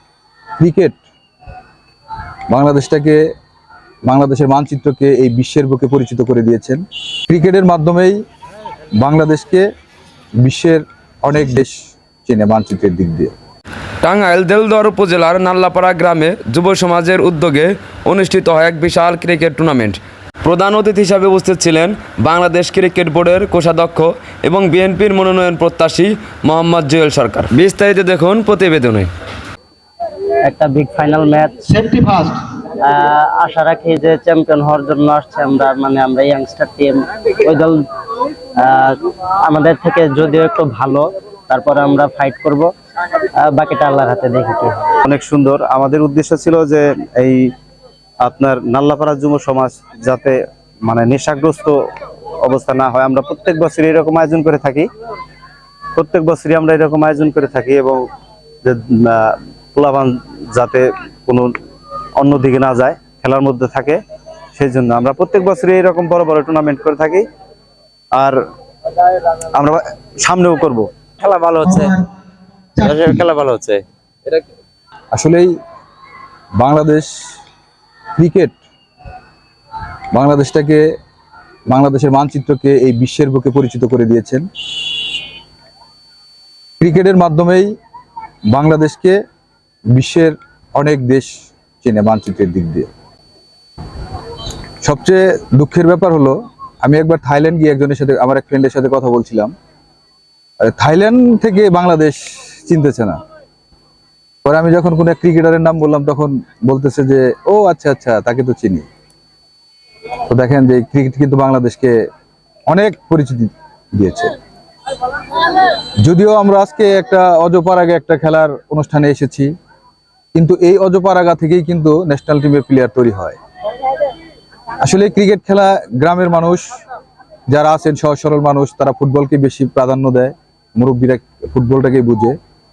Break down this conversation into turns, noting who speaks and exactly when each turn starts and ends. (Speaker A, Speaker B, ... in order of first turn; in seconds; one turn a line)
Speaker A: 0.6-1.0
Speaker A: 2.5-3.2
Speaker A: 4.1-8.2
Speaker A: 9.0-9.7
Speaker A: 10.4-13.3
Speaker B: 14.0-29.1
Speaker C: 30.4-32.1
Speaker D: 31.8-32.4
Speaker C: 32.8-37.8
Speaker C: 38.6-42.7
Speaker C: 43.4-45.0
Speaker E: 45.0-47.5
Speaker E: 48.2-51.8
Speaker E: 52.4-54.9
Speaker E: 56.0-58.0
Speaker E: 58.6-61.5
Speaker E: 62.2-64.0
Speaker E: 64.5-67.2
Speaker E: 69.5-70.9
Speaker D: 71.2-72.0
Speaker D: 72.8-73.8
Speaker A: 75.1-75.5
Speaker A: 76.6-77.1
Speaker A: 78.2-78.6
Speaker A: 80.1-80.8
Speaker A: 81.7-84.5
Speaker A: 86.8-87.7
Speaker A: 88.5-89.2
Speaker A: 89.9-92.9
Speaker A: 94.8-99.5
Speaker A: 100.6-103.2
Speaker A: 104.4-108.9
Speaker A: 110.3-111.9
Speaker A: 112.7-114.3
Speaker A: 116.0-119.5
Speaker A: 120.3-123.4
Speaker A: 124.8-126.7
Speaker A: 127.5-132.3